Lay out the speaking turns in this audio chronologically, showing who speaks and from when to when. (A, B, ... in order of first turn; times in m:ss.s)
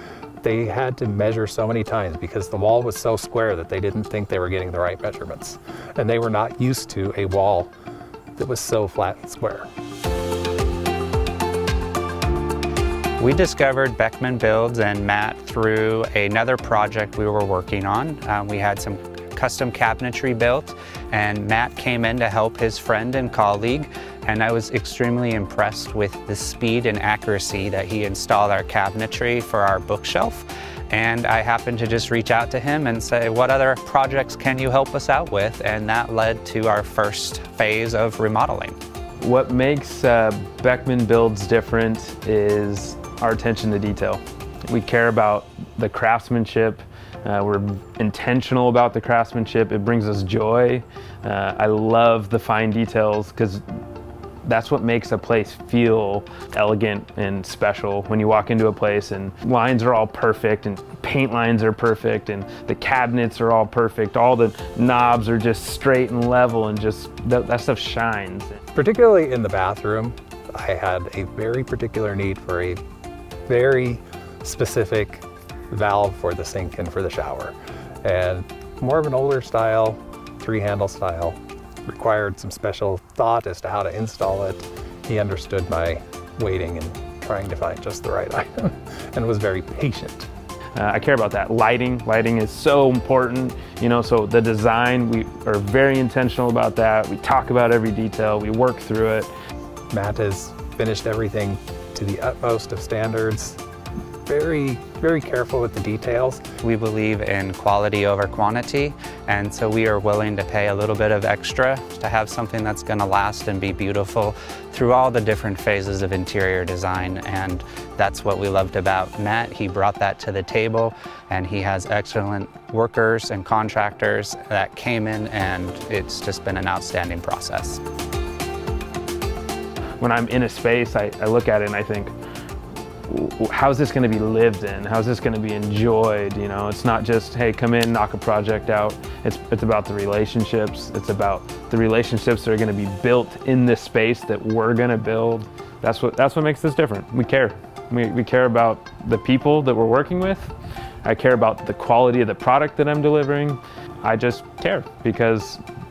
0:00.4-0:07.7 A
0:08.4-0:09.7 A
0:13.2-0:38.8 B
0:39.2-0:53.6 C
0:54.4-1:08.6 C
1:08.7-1:12.8 A
1:13.5-1:30.3 A
1:30.8-1:39.3 C
1:39.9-1:43.6 A
1:44.3-1:46.4 A
1:46.6-2:07.8 B
2:10.0-2:12.1 C
2:13.1-2:30.5 C
2:31.0-2:35.6 C